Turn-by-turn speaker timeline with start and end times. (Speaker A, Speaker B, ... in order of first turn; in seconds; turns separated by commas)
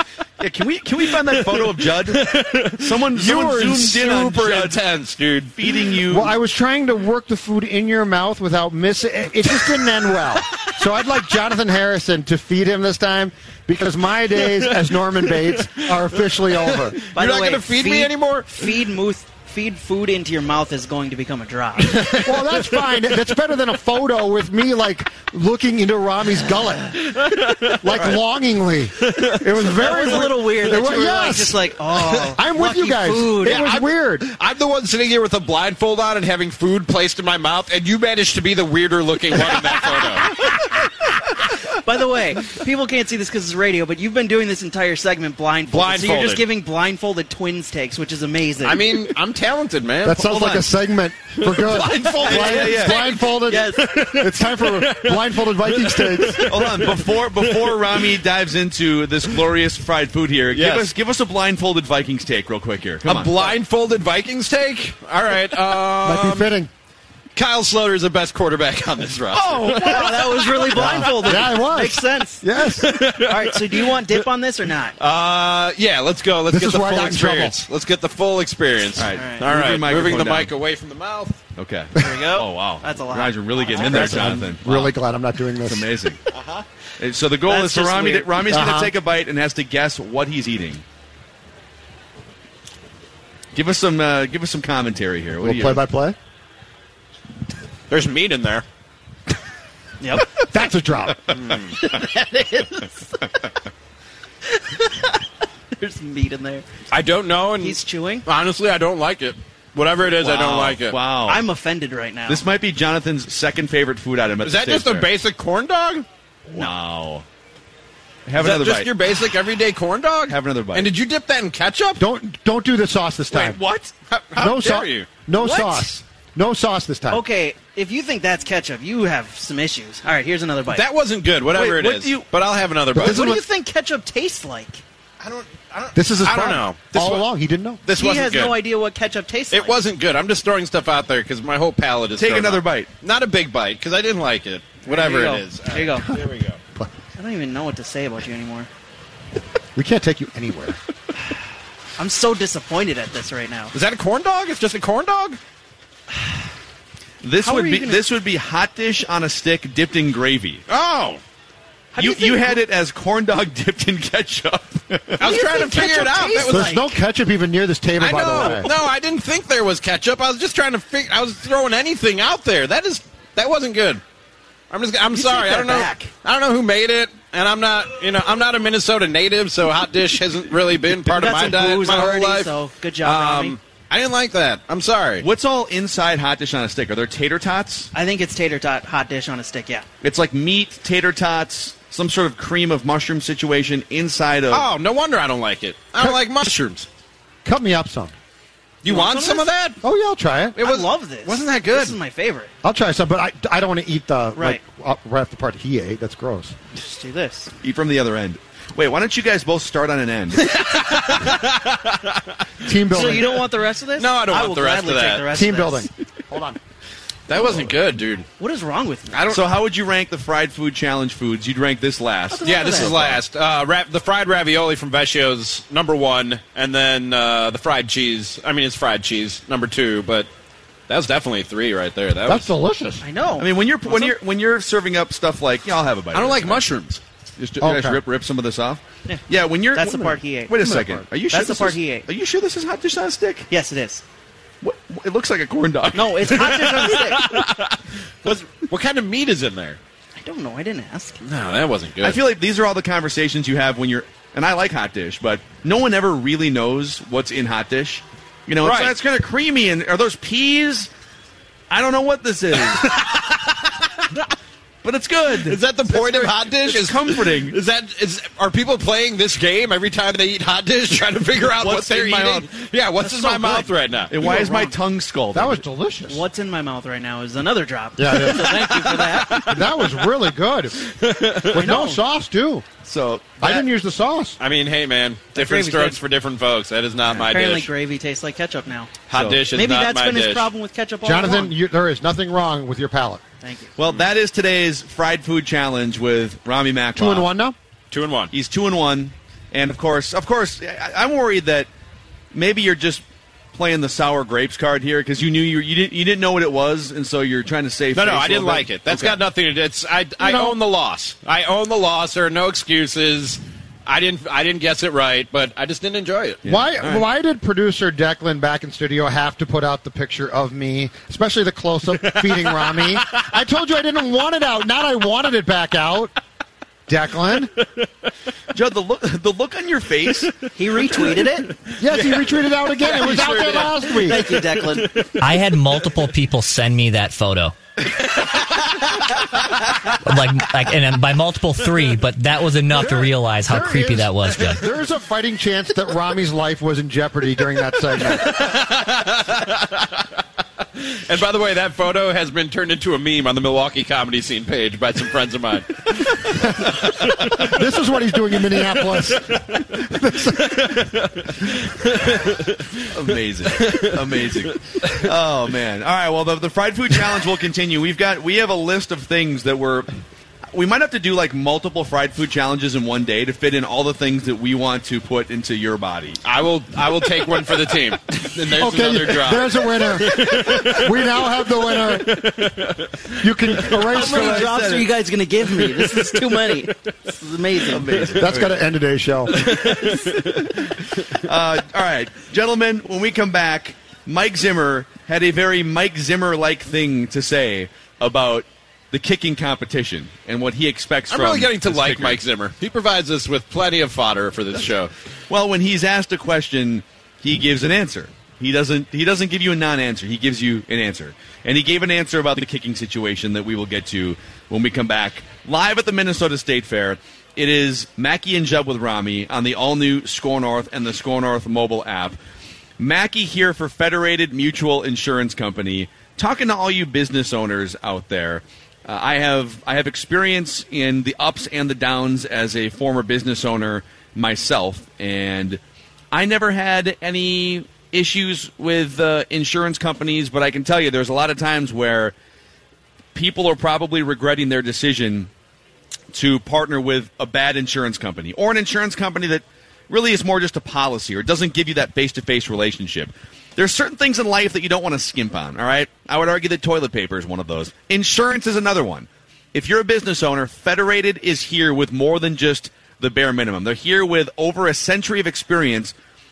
Speaker A: 0.4-4.9, Speaker B: 1.2-5.5, Speaker A: 5.5-6.3, Speaker C: 6.1-17.0, Speaker B: 16.9-18.7, Speaker D: 17.1-22.0, Speaker C: 22.1-34.3, Speaker B: 27.3-27.8, Speaker B: 29.0-30.2, Speaker D: 29.7-33.6, Speaker B: 33.4-40.4, Speaker D: 41.8-48.9, Speaker B: 45.7-46.4, Speaker B: 48.6-50.5, Speaker C: 50.0-56.5, Speaker A: 50.3-50.6, Speaker B: 51.4-52.8, Speaker A: 52.2-53.0, Speaker D: 52.7-53.8, Speaker B: 53.7-57.8, Speaker A: 56.5-63.5, Speaker B: 60.5-60.9, Speaker B: 63.0-66.5, Speaker C: 66.0-66.7, Speaker B: 67.3-71.6, Speaker A: 69.2-70.0, Speaker D: 69.4-72.4, Speaker C: 70.7-73.0, Speaker B: 72.8-74.0, Speaker D: 73.2-75.0, Speaker B: 75.0-81.4, Speaker C: 76.5-77.6, Speaker A: 79.0-80.5, Speaker D: 79.0-79.5, Speaker A: 81.6-84.9, Speaker D: 82.0-84.7, Speaker C: 83.8-85.9, Speaker B: 84.1-84.3, Speaker A: 85.6-86.2, Speaker B: 86.3-86.6, Speaker A: 87.0-90.8, Speaker D: 87.5-88.2, Speaker B: 87.8-88.2, Speaker C: 88.5-88.9, Speaker A: 93.5-95.8, Speaker C: 95.4-96.2, Speaker B: 97.9-98.6, Speaker D: 100.0-100.4, Speaker C: 100.5-101.3, Speaker B: 101.3-101.7, Speaker D: 101.8-103.4, Speaker D: 104.8-105.0, Speaker D: 105.8-106.7, Speaker B: 106.9-111.0, Speaker D: 107.6-108.2, Speaker A: 110.2-111.4, Speaker D: 111.2-112.5, Speaker A: 112.3-115.1, Speaker B: 114.4-116.1, Speaker A: 116.5-117.2, Speaker A: 118.3-118.9, Speaker B: 118.4-122.0, Speaker A: 120.3-120.9, Speaker C: 122.0-123.6, Speaker A: 123.3-123.9, Speaker B: 124.1-125.1, Speaker C: 124.3-127.2, Speaker D: 125.4-125.8, Speaker D: 127.1-130.8, Speaker B: 130.7-133.3, Speaker A: 131.5-132.3, Speaker D: 132.9-134.8, Speaker C: 132.9-133.4, Speaker B: 135.2-137.2, Speaker C: 135.9-137.8, Speaker B: 137.8-138.6, Speaker D: 137.9-139.8, Speaker B: 139.5-146.6, Speaker A: 142.2-142.9, Speaker D: 144.9-146.1, Speaker D: 147.2-148.7, Speaker C: 149.8-150.8, Speaker D: 152.0-153.7, Speaker B: 153.7-155.4, Speaker A: 157.2-160.6, Speaker D: 157.4-158.0, Speaker B: 160.7-161.2, Speaker D: 161.9-162.6, Speaker A: 162.0-165.3, Speaker B: 165.2-166.8, Speaker D: 165.2-166.9, Speaker C: 166.4-168.7, Speaker B: 168.0-174.0, Speaker B: 174.7-182.5, Speaker D: 175.1-176.1, Speaker D: 181.0-183.6, Speaker B: 183.0-185.3, Speaker A: 185.2-187.9, Speaker D: 187.9-189.8, Speaker A: 190.0-194.7, Speaker B: 194.5-196.9, Speaker C: 197.4-198.1, Speaker B: 198.8-199.8, Speaker D: 198.8-199.5, Speaker C: 199.8-200.6, Speaker B: 200.6-202.0, Speaker D: 200.6-202.5, Speaker C: 202.6-206.6, Speaker D: 204.3-204.6, Speaker D: 206.7-207.5, Speaker A: 207.6-210.5, Speaker B: 210.5-212.4, Speaker C: 212.6-213.4, Speaker D: 212.9-215.9, Speaker B: 212.9-213.2, Speaker B: 214.0-215.3, Speaker C: 215.3-216.6, Speaker B: 217.3-218.3, Speaker D: 218.4-219.2, Speaker B: 219.1-219.4, Speaker A: 219.3-223.2, Speaker D: 222.3-223.0, Speaker B: 222.4-230.3, Speaker B: 230.9-232.5, Speaker C: 232.3-233.0, Speaker D: 233.0-234.1, Speaker A: 233.4-236.6, Speaker B: 236.1-237.0, Speaker A: 237.4-243.5, Speaker C: 237.6-238.0, Speaker D: 239.7-240.7, Speaker C: 240.6-241.0, Speaker D: 241.3-242.1, Speaker D: 243.5-244.0, Speaker A: 244.6-246.5, Speaker D: 245.9-247.3, Speaker B: 246.3-249.8, Speaker D: 250.2-251.2, Speaker B: 251.2-252.2, Speaker A: 252.0-260.9, Speaker B: 258.6-258.9, Speaker A: 261.7-263.0, Speaker B: 262.6-264.1, Speaker A: 264.8-267.6, Speaker B: 265.4-274.4, Speaker A: 271.6-272.5, Speaker D: 273.1-273.5, Speaker A: 274.1-275.6, Speaker C: 274.2-274.7, Speaker C: 275.3-276.2, Speaker D: 276.1-279.5, Speaker C: 277.9-278.7, Speaker B: 278.2-279.5, Speaker C: 279.4-282.6, Speaker B: 280.8-281.7, Speaker D: 281.5-282.0, Speaker A: 282.8-283.4, Speaker C: 283.4-284.4, Speaker B: 284.4-287.7, Speaker D: 285.3-286.0, Speaker D: 287.1-288.9, Speaker B: 289.1-290.5, Speaker A: 289.1-289.5, Speaker D: 289.5-291.5, Speaker C: 291.0-293.2, Speaker D: 293.4-293.7, Speaker A: 293.8-297.3, Speaker C: 296.9-297.6, Speaker B: 297.9-298.3, Speaker A: 298.3-301.7, Speaker A: 302.3-309.2, Speaker B: 307.9-316.4, Speaker C: 310.2-310.6, Speaker A: 316.4-317.0, Speaker C: 316.4-326.1, Speaker C: 326.9-327.5, Speaker A: 328.5-330.4, Speaker D: 330.6-331.5, Speaker B: 331.6-335.1, Speaker C: 331.8-334.3, Speaker D: 333.3-334.9, Speaker E: 335.2-337.5, Speaker E: 340.1-344.6, Speaker C: 342.7-348.4, Speaker B: 348.2-350.1, Speaker B: 350.8-357.5, Speaker C: 356.3-360.8, Speaker B: 360.5-362.9, Speaker A: 362.9-369.9, Speaker B: 363.6-365.0, Speaker A: 370.5-376.2, Speaker B: 376.2-383.1, Speaker C: 378.5-382.6, Speaker C: 383.2-384.5, Speaker D: 383.9-388.0, Speaker A: 383.9-384.9, Speaker B: 385.5-386.7, Speaker A: 387.7-388.6, Speaker C: 388.1-389.4, Speaker A: 389.4-402.2, Speaker B: 389.4-390.4, Speaker B: 401.1-404.9, Speaker A: 405.3-422.2, Speaker A: 422.8-435.6, Speaker A: 436.1-442.1, Speaker A: 443.1-445.3, Speaker A: 446.1-465.9